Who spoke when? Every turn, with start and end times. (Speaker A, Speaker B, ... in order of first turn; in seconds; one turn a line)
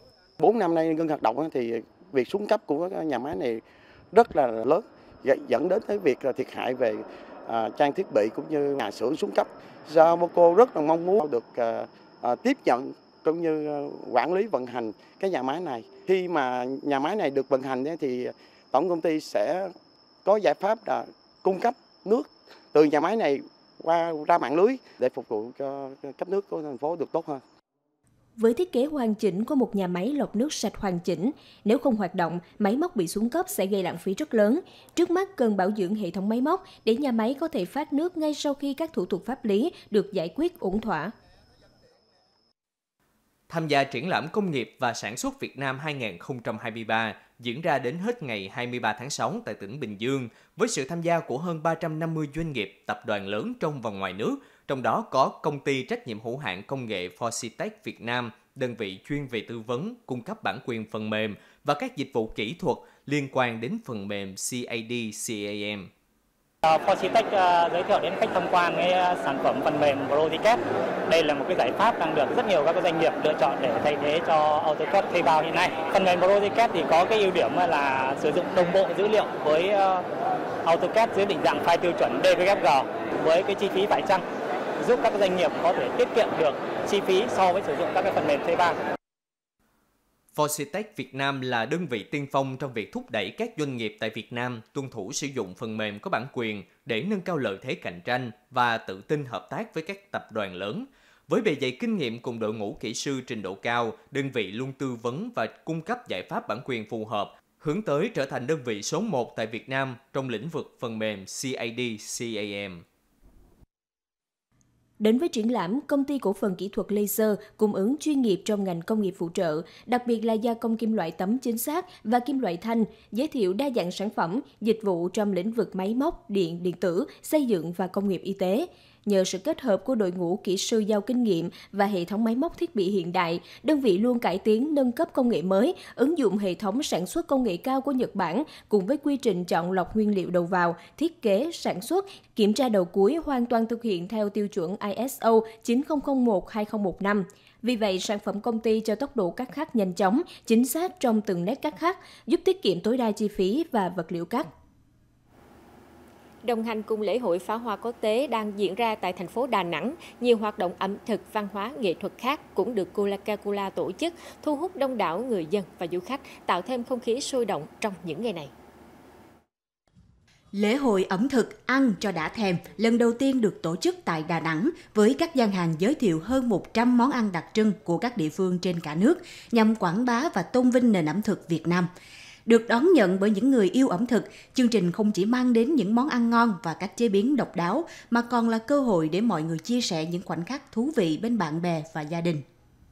Speaker A: 0.4-19.7
Speaker A: 20.2-27.4
Speaker B: 28.4-41.1
Speaker C: 43.5-65.9
Speaker D: 66.6-80.0
Speaker D: 80.6-84.2
Speaker D: 84.8-88.8
Speaker C: 90.3-112.8
Speaker B: 115.0-154.5
Speaker E: 156.4-168.5
Speaker F: 170.5-181.9
Speaker F: 182.4-192.4